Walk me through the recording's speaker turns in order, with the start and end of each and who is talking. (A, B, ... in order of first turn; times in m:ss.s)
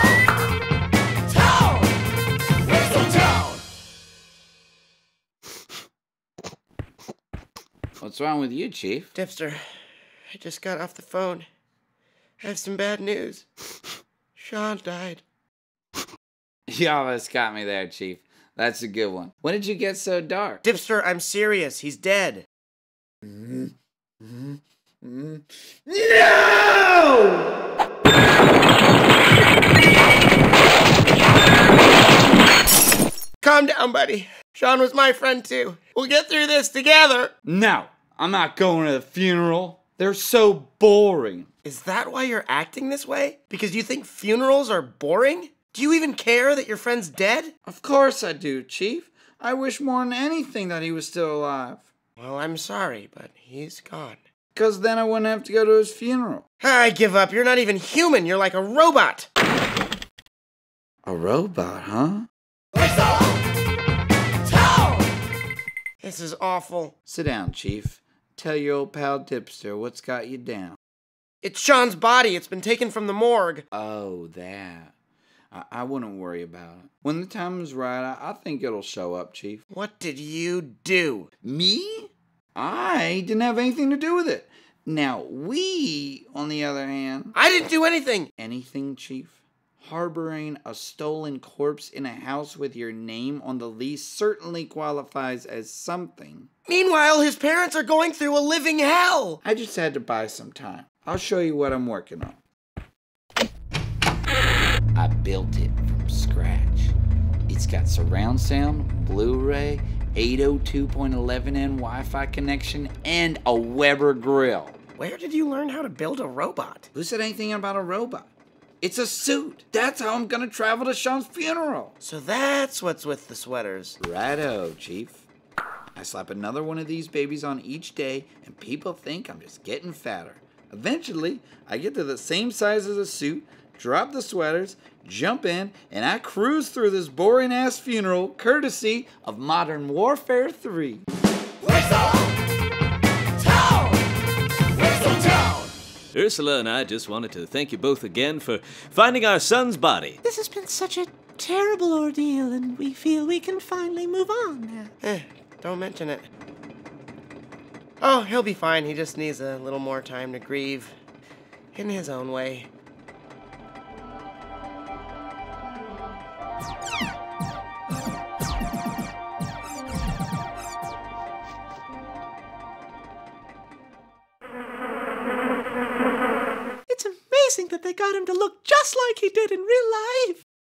0:08.0-0:09.1 A
0:09.1-0:09.6 B
0:10.3-0:11.5 B
0:12.4-0:13.4 B
0:14.4-0:15.2 B
0:16.7-0:20.6 A
0:20.6-0:22.5 B
0:23.2-0:27.5 A
0:33.4-0:37.3 B
0:37.4-0:41.5 A
0:41.6-0:47.5 B
0:47.7-0:51.9 A
0:52.2-0:54.2 B
0:54.5-0:56.4 A
0:56.6-0:59.3 B
1:01.0-1:02.3 A
1:06.0-1:06.9 B
1:07.1-1:10.8 A
1:11.4-1:13.6 B
1:13.7-1:14.9 A
1:15.5-1:19.6 A
1:19.7-1:21.3 B
1:21.4-1:27.4 A
1:27.3-1:28.3 B
1:28.4-1:36.5 A
1:36.7-1:39.4 B
1:39.4-1:42.4 A
1:45.0-1:47.0 A
1:47.5-1:54.8 A
1:55.0-1:56.9 B
1:56.9-1:58.3 A
1:58.8-2:01.9 A
2:02.0-2:04.0 B
2:04.0-2:05.2 A
2:06.0-2:21.0 A
2:26.1-2:30.2 C
2:30.2-2:34.7 D
2:34.4-2:34.9 C
2:35.0-2:36.3 B
2:38.0-2:41.0 B
2:41.7-2:42.7 B
2:56.9-3:00.4 D